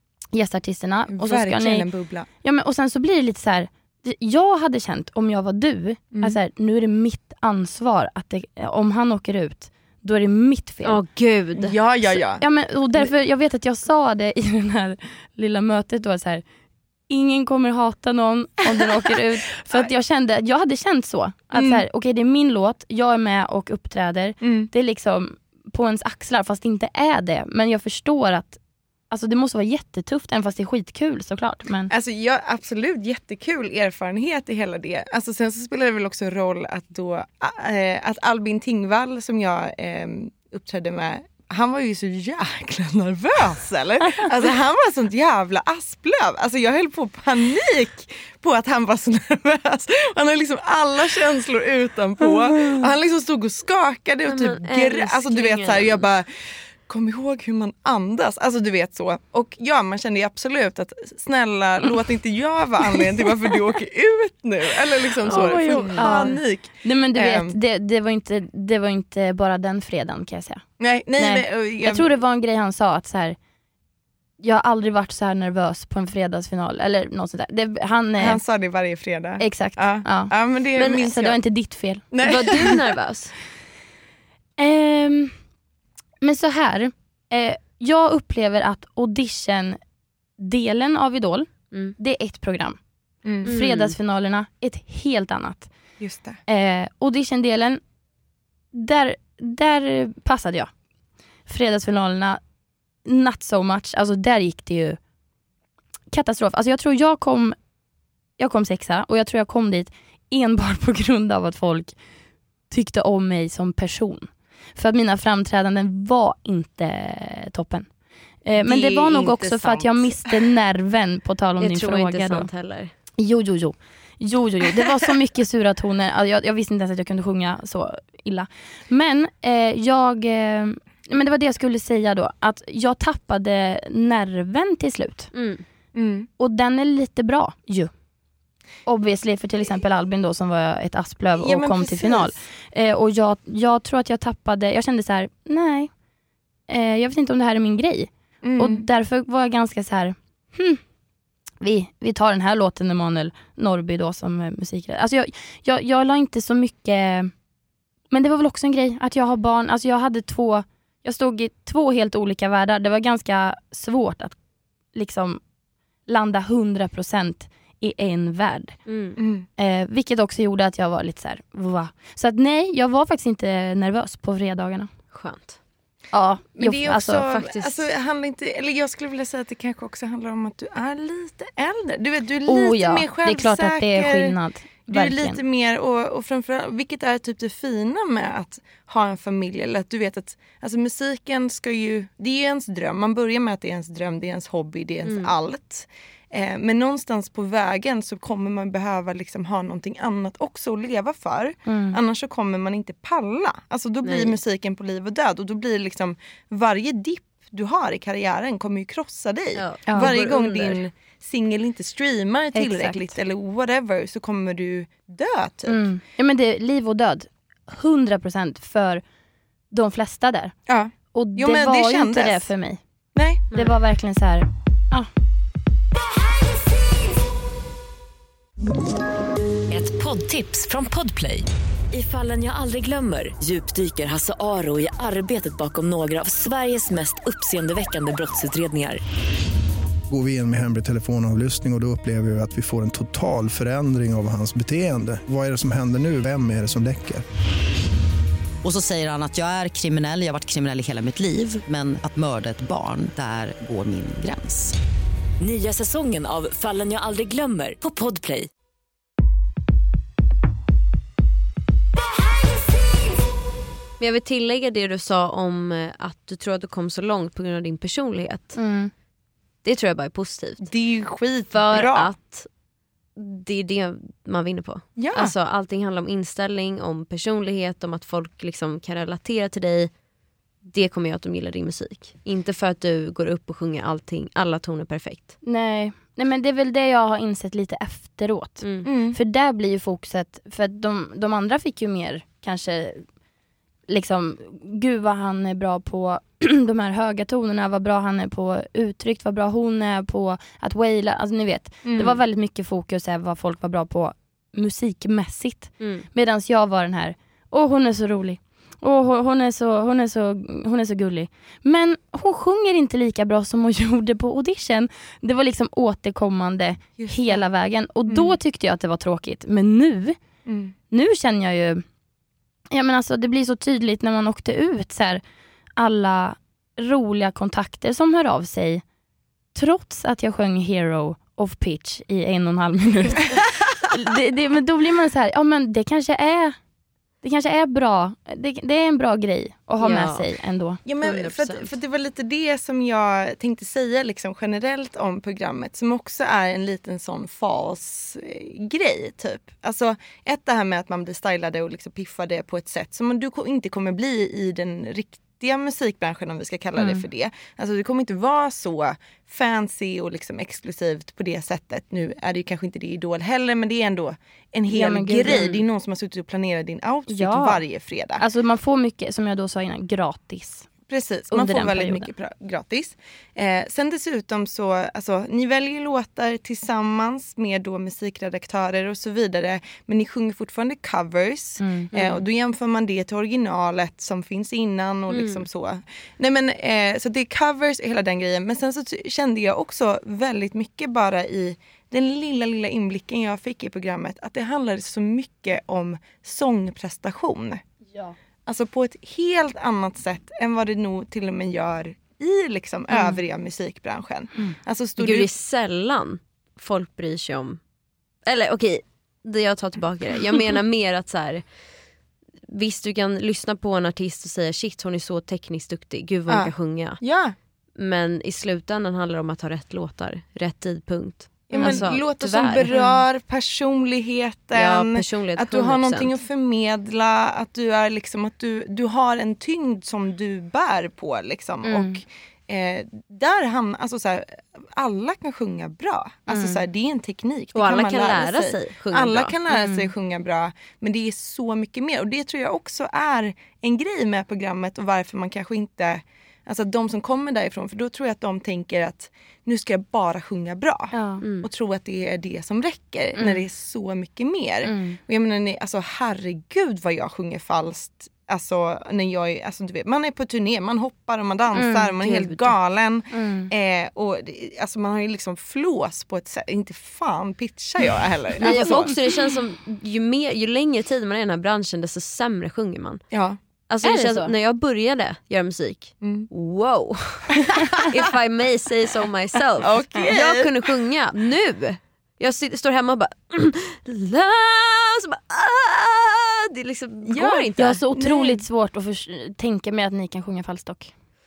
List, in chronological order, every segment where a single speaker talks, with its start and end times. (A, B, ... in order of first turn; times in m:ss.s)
0:00.3-0:01.9 A
0:01.1-0:02.3 B
0:02.4-0:11.0 A
0:10.8-0:11.8 C
0:11.6-0:12.4 B
0:12.4-0:16.4 A
0:17.1-0:28.6 A
0:21.5-0:21.8 B
0:24.4-0:24.7 B
0:29.1-0:31.9 A
0:31.9-1:07.5 B
0:54.3-0:56.1 C
1:05.2-1:06.4 C
1:05.3-1:10.6 A
1:10.8-1:12.1 B
1:11.2-1:13.4 A
1:14.4-1:18.4 A
1:18.2-1:21.4 B
1:19.4-1:22.0 A
1:22.1-1:22.8 B
1:22.2-1:23.3 C
1:24.6-1:25.3 A
1:26.2-1:29.8 A
1:30.4-1:32.8 A
1:33.2-1:33.5 B
1:33.4-1:35.7 A
1:33.4-1:34.0 C
1:36.0-1:36.4 B
1:36.5-1:37.8 A
1:38.7-1:40.7 A
1:41.5-1:42.4 A
1:43.0-1:45.0 A
1:46.1-1:47.6 A
1:48.4-1:51.9 A
1:52.7-1:57.9 A
1:58.4-2:02.5 A
1:58.6-2:00.4 B
2:01.6-2:02.9 C
2:03.2-2:15.3 A
2:15.3-2:15.6 C
2:15.9-2:16.3 B
2:16.4-2:17.9 A
2:18.8-2:25.9 A
2:21.4-2:22.3 B
2:26.7-2:30.8 A
2:28.4-2:28.8 B
2:31.6-2:37.3 A
2:38.1-2:44.3 A
2:44.9-2:45.4 A
2:46.1-2:48.8 A
2:48.8-2:49.2 C
2:49.2-2:49.5 B
2:49.6-2:54.9 A
2:55.1-2:55.6 C
2:56.1-2:57.2 A
2:56.6-3:35.8 B
2:57.2-2:57.8 C
3:02.5-3:05.4 A
3:15.0-3:15.3 C
3:21.6-3:22.0 A
3:24.0-3:24.4 C
3:29.5-3:30.8 C
3:32.5-3:33.1 A
3:35.7-3:39.0 A
3:39.7-3:40.5 A
3:40.7-3:42.5 B
3:41.1-3:42.8 A
3:43.1-3:43.4 B
3:43.5-3:43.8 C
3:43.5-3:45.1 A
3:49.7-3:59.0 D
4:00.1-4:07.2 E
4:08.6-4:14.7 F
4:15.4-4:18.5 D
4:24.0-4:28.6 C
4:28.5-4:28.9 A
4:29.6-4:30.7 C
4:30.6-4:32.1 B
4:31.5-4:32.5 C
4:33.2-4:39.9 C
4:35.0-4:35.3 B
4:40.6-4:45.3 C
4:45.4-4:53.0 A
4:48.6-4:48.9 C
4:48.8-4:49.2 B
4:53.9-5:20.2 A
5:01.8-5:02.2 B
5:05.8-5:06.0 C
5:17.0-5:17.4 B
5:18.1-5:18.4 B
5:20.4-5:20.7 B
5:20.9-5:21.8 A
5:22.7-5:25.2 A
5:25.8-5:28.8 A
5:29.5-5:36.6 A
5:37.2-5:40.8 A
5:39.8-5:40.3 C
5:40.8-6:08.2 B
5:41.0-5:41.7 C
5:56.8-5:57.0 A
6:04.7-6:05.5 A
6:05.2-6:05.6 C
6:07.1-6:07.6 A
6:08.2-6:10.7 A
6:10.9-6:37.6 B
6:11.3-6:12.1 A
6:21.6-6:21.9 A
6:21.9-6:22.2 C
6:25.1-6:25.5 C
6:38.5-6:45.3 B
6:42.9-6:43.2 A
6:45.0-6:47.6 C
6:48.2-6:51.4 C
6:52.5-6:57.0 C
6:56.3-6:57.3 B
6:57.8-7:02.7 C
7:01.5-7:49.0 B
7:01.5-7:01.8 A
7:02.7-7:03.0 A
7:04.5-7:06.2 C
7:11.6-7:12.0 A
7:16.3-7:16.6 A
7:17.5-7:19.3 C
7:19.5-7:19.9 A
7:30.9-7:31.2 A
7:31.2-7:31.5 C
7:33.2-7:33.4 A
7:34.6-7:35.0 A
7:41.5-7:41.9 A
7:42.0-7:42.5 C
7:43.1-7:43.5 A
7:48.4-7:48.8 A
7:48.4-7:53.0 C
7:53.1-7:53.4 B
7:53.7-8:07.8 C
7:53.8-7:54.3 A
7:56.0-7:56.3 B
7:57.6-7:57.9 B
7:59.6-8:00.7 B
8:07.0-8:08.4 B
8:07.6-8:10.9 A